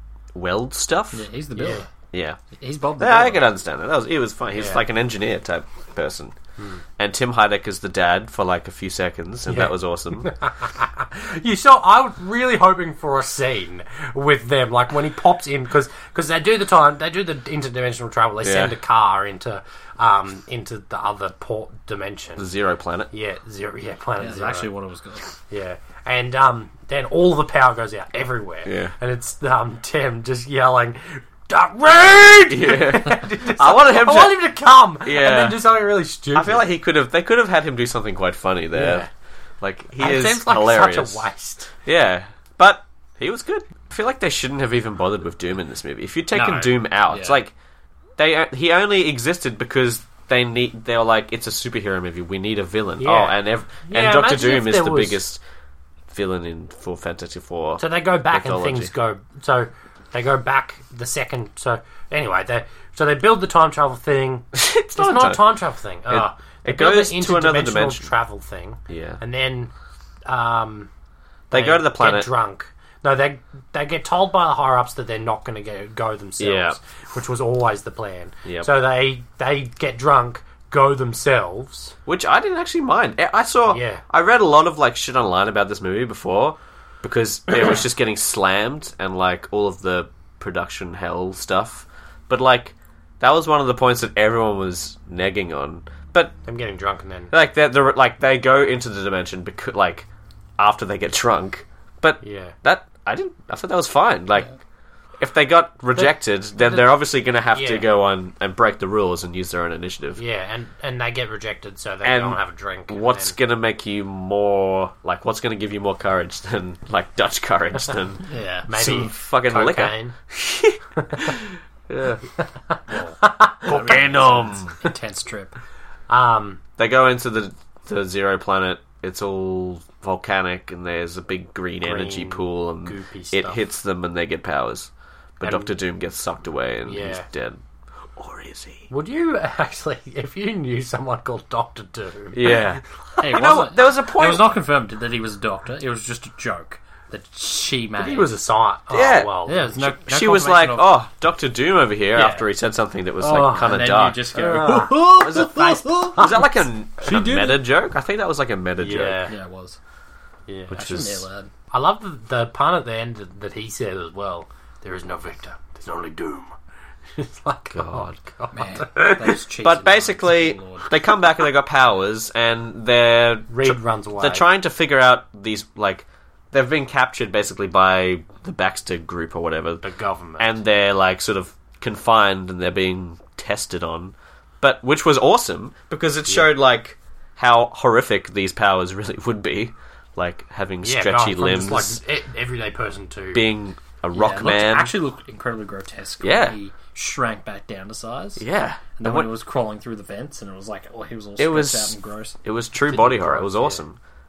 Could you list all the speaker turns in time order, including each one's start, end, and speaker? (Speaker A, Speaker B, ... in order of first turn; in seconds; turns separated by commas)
Speaker A: 0.3-1.3, Speaker B: 1.1-1.9, Speaker C: 1.6-1.8, Speaker A: 2.1-2.4, Speaker B: 2.6-3.5, Speaker A: 3.0-6.3, Speaker C: 4.5-4.8, Speaker C: 6.6-6.8, Speaker A: 7.0-10.3, Speaker C: 9.5-22.5, Speaker A: 18.4-18.7, Speaker A: 22.4-23.1, Speaker C: 23.1-24.7, Speaker B: 24.2-25.2, Speaker C: 25.5-36.6, Speaker A: 28.6-28.9, Speaker A: 32.5-34.5, Speaker A: 35.0-35.6, Speaker A: 36.3-39.1, Speaker C: 38.7-39.1, Speaker A: 39.6-41.2, Speaker C: 40.0-41.7, Speaker A: 41.8-47.5, Speaker C: 46.4-46.7, Speaker B: 47.1-47.4, Speaker A: 48.2-55.4, Speaker C: 53.0-55.2, Speaker A: 56.1-58.9, Speaker C: 57.8-69.7, Speaker A: 64.5-68.1, Speaker A: 68.9-69.2, Speaker C: 70.2-70.9, Speaker A: 71.5-72.3, Speaker C: 71.5-81.9, Speaker A: 76.4-76.8, Speaker A: 78.4-78.7, Speaker A: 82.0-96.3, Speaker C: 83.7-84.0, Speaker C: 96.5-97.3, Speaker A: 97.3-100.0, Speaker A: 100.6-104.5, Speaker C: 102.2-102.5, Speaker A: 105.2-110.2, Speaker C: 105.9-107.0, Speaker C: 107.5-107.9, Speaker C: 110.2-113.3, Speaker A: 112.0-122.2, Speaker B: 118.3-118.7, Speaker C: 118.7-120.1, Speaker C: 121.0-121.3, Speaker C: 122.7-124.0, Speaker A: 123.7-124.7, Speaker B: 123.7-125.6, Speaker C: 126.1-126.6, Speaker A: 126.8-137.6, Speaker C: 131.8-133.6, Speaker C: 135.4-135.7, Speaker C: 136.8-137.3, Speaker A: 138.2-138.9, Speaker C: 138.9-142.8, Speaker A: 142.3-144.5, Speaker B: 143.2-148.3, Speaker C: 148.0-149.7, Speaker A: 148.9-159.2, Speaker B: 149.4-150.9, Speaker B: 152.1-152.5, Speaker B: 153.2-156.4, Speaker C: 153.3-153.6, Speaker C: 154.3-156.6, Speaker B: 157.0-157.6, Speaker C: 158.8-159.3, Speaker B: 159.3-159.8, Speaker C: 160.5-160.8, Speaker B: 160.7-161.5, Speaker A: 160.7-161.2, Speaker C: 161.7-166.5, Speaker C: 167.2-169.4, Speaker A: 167.7-168.2, Speaker B: 168.5-170.8, Speaker A: 169.6-179.8, Speaker C: 173.5-174.5, Speaker C: 179.8-180.5, Speaker A: 180.4-192.0, Speaker C: 190.8-193.4, Speaker A: 193.3-194.9, Speaker B: 194.1-198.4, Speaker A: 196.2-196.6, Speaker A: 198.4-199.3, Speaker B: 199.0-202.4, Speaker A: 201.4-204.0, Speaker B: 202.9-203.7, Speaker C: 203.0-203.8